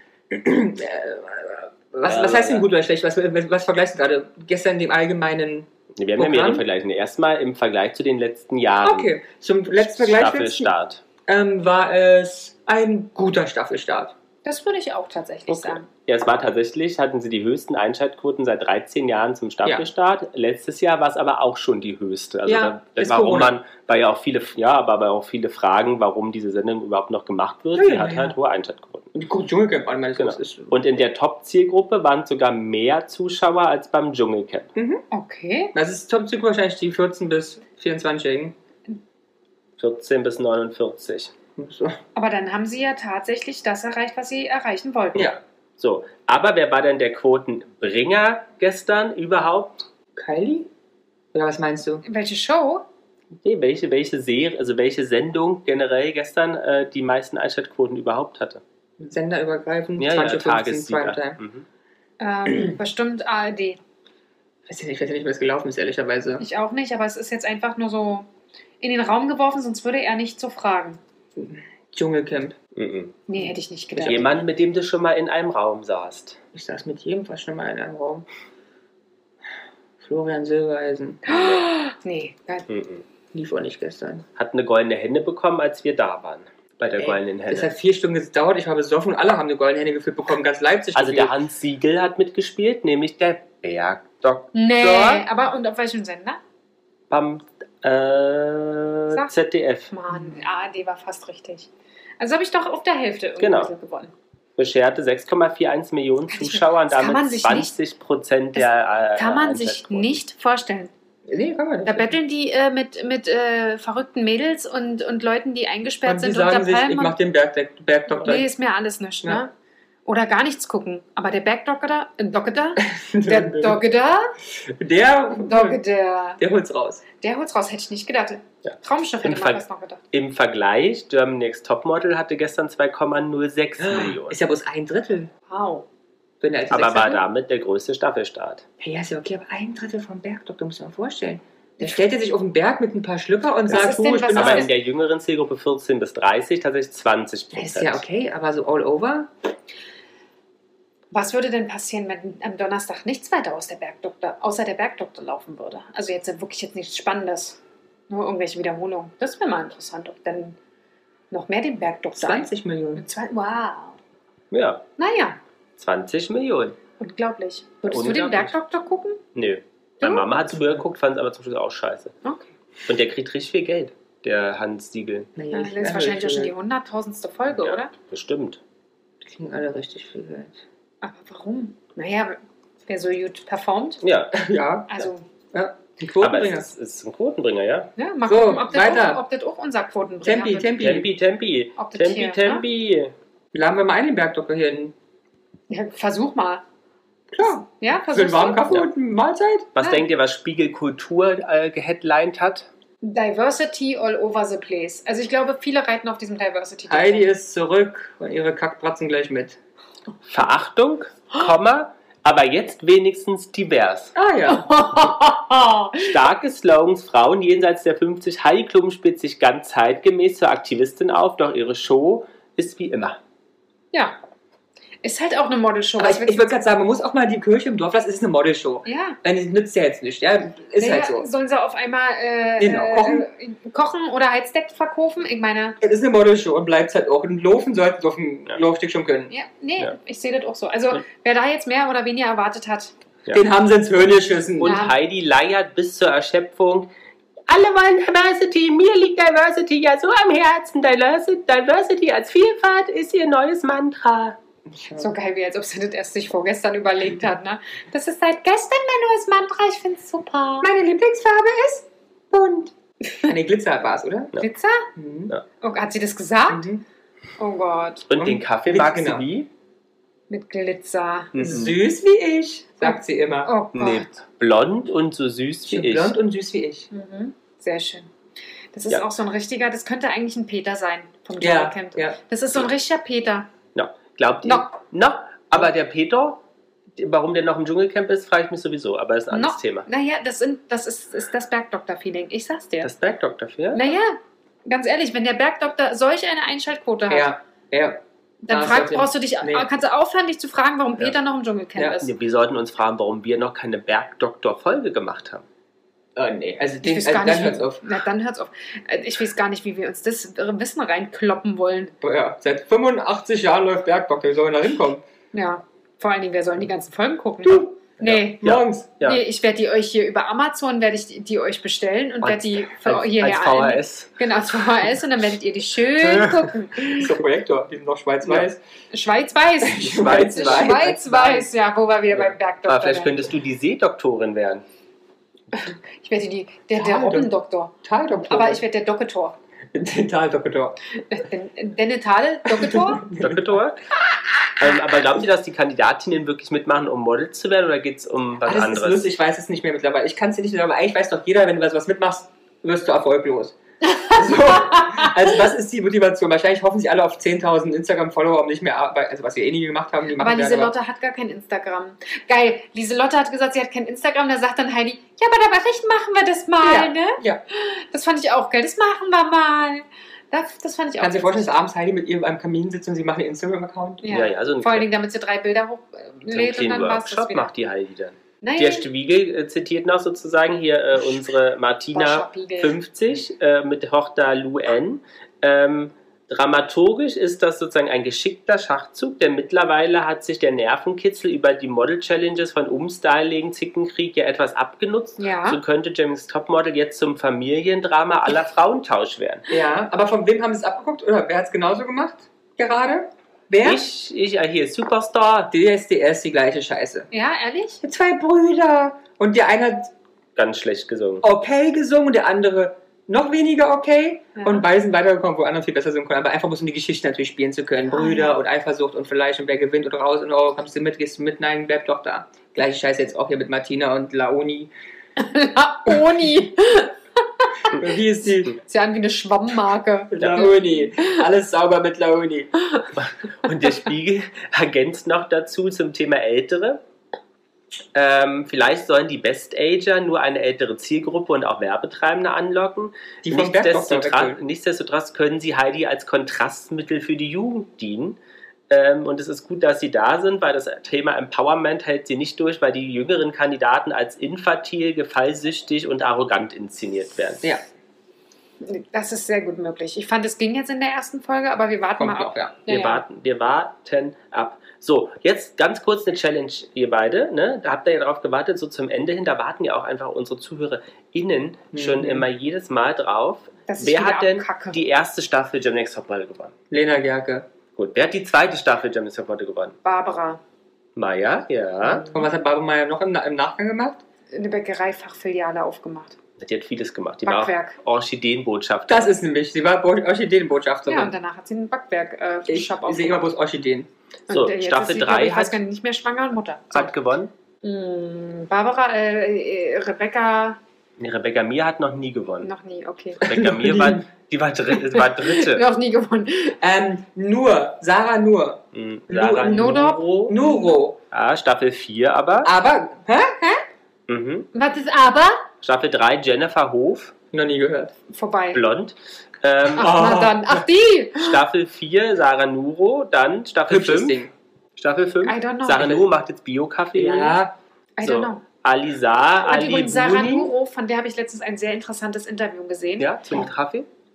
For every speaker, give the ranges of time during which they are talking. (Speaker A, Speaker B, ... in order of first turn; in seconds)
Speaker A: 0.3-6.7, 8.8-10.7, 11.3-14.1, 22.5-23.5, 27.8-28.4, 29.1-30.8, 34.8-35.0, 35.7-38.5, 41.6-42.0, 50.2-50.7, 51.3-52.0, 59.0-61.4, 64.7-66.5, 71.4-72.6, 73.4-74.4, 76.5-78.3, 80.0-81.2, 83.3-84.3, 87.0-91.3, 111.3-112.2, 116.0-118.5, 122.9-123.8, 124.6-125.8, 126.4-127.0, 133.8-135.3, 136.4-137.2, 138.8-144.7, 147.5-149.3, 162.2-163.1, 175.4-176.5, 179.2-180.6, 184.3-186.7, 188.3-189.2, 190.2-191.1, 193.5-194.9, 197.3-199.7, 206.9-209.6, 214.2-214.8, 226.0-231.3, 232.6-233.3, 235.8-239.3, 243.3-244.8, 254.7-255.1, 260.6-262.7, 263.2-264.3, 265.0-265.3, 266.5-266.8, 268.2-269.3, 271.4-273.5, 275.7-276.9, 281.4-282.2, 297.1-299.7, 306.2-307.8, 312.0-315.0, 318.0-318.9, 326.9-328.6, 329.6-331.5, 336.7-337.3, 337.8-338.6, 339.7-340.8, 342.6-343.4, 348.4-353.6, 354.1-360.7, 366.6-367.4, 371.0-374.1, 399.5-403.8, 405.5-407.1, 407.8-409.9, 411.2-424.7, 427.7-428.6, 430.1-432.5, 443.2-444.4, 462.0-462.6, 471.7-472.3, 476.7-477.5, 482.1-484.0, 488.9-491.1, 492.5-493.9, 503.3-504.1, 506.6-511.0, 512.4-513.6, 517.3-517.9, 519.8-520.6, 523.7-524.3, 527.0-527.5
Speaker B: 2.1-2.7, 6.0-9.1, 9.8-11.0, 15.5-29.1, 30.2-34.7, 39.8-41.3, 45.2-49.8, 53.4-58.6, 60.0-61.6, 72.8-73.2, 74.1-76.4, 81.3-81.7, 82.7-83.0, 84.4-87.7, 91.0-95.3, 97.1-99.9, 103.4-103.7, 104.6-110.2, 128.7-129.6, 130.1-134.4, 136.7-138.7, 143.7-148.0, 164.5-164.8, 165.8-166.8, 167.9-168.6, 169.3-172.1, 172.9-175.3, 177.6-178.6, 184.0-184.4, 186.2-187.9, 190.8-193.1, 199.8-202.7, 210.3-214.1, 216.0-223.2, 244.6-246.9, 247.5-254.4, 268.1-269.5, 271.3-271.8, 273.7-276.1, 283.8-286.4, 287.0-289.9, 292.8-293.8, 302.0-305.4, 317.5-319.2, 322.2-324.1, 326.0-326.5, 329.8-330.9, 332.1-334.6, 343.2-343.8, 344.6-349.1, 374.1-374.9, 376.3-399.5, 403.6-405.5, 410.4-411.3, 430.2-430.5, 433.0-436.8, 437.9-448.2, 448.7-457.5, 462.7-476.5, 477.8-479.8, 481.0-482.1, 486.4-489.1, 494.3-495.6, 496.7-497.3, 501.0-502.5, 503.2-505.6, 508.7-510.4, 511.1-512.5, 514.1-514.5, 515.6-517.1, 518.5-520.0, 521.1-524.2, 524.8-527.4, 528.0-530.5, 533.0-533.9
Speaker C: 14.4-15.9, 35.1-35.7, 42.1-45.3, 52.0-52.9, 62.2-63.8, 66.4-68.3, 68.8-71.0, 73.3-74.3, 81.3-82.7, 94.5-96.4, 99.9-104.1, 106.3-107.7, 108.5-110.9, 111.8-117.2, 118.2-119.5, 120.1-124.3, 125.3-126.4, 127.2-130.0, 135.5-135.8, 143.7-144.7, 151.1-160.6, 161.3-164.0, 165.0-165.4, 167.0-169.2, 170.0-170.4, 172.2-172.5, 175.5-177.9, 181.0-184.0, 184.9-185.3, 188.0-190.8, 191.8-192.6, 195.7-196.6, 197.8-198.7, 199.8-200.1, 203.0-207.3, 214.5-216.1, 223.9-224.2, 225.0-226.5, 228.9-229.2, 230.8-235.8, 239.3-242.9, 244.6-245.0, 255.0-260.7, 264.4-264.9, 265.6-266.7, 267.4-268.1, 270.3-271.4, 272.8-274.1, 276.9-278.1, 278.7-283.5, 284.4-284.7, 289.3-292.9, 293.7-297.3, 298.4-302.1, 306.8-311.9, 315.3-318.5, 319.0-327.1, 328.9-333.2, 335.5-337.7, 338.3-339.4, 341.1-343.1, 353.9-355.2, 360.2-371.6, 374.0-377.5, 378.4-378.9, 381.9-382.8, 395.2-395.6, 407.1-407.8, 414.4-414.6, 417.9-418.4, 425.2-427.7, 428.5-431.2, 458.6-463.0, 473.7-474.8, 479.8-480.4, 484.3-486.2, 487.2-487.8, 490.9-493.3, 494.3-496.9, 497.6-500.6, 502.4-503.4, 504.9-506.6, 509.5-510.5, 514.5-515.5, 518.1-518.6, 519.8-521.4, 525.2-526.1, 528.0-528.4, 529.4-533.5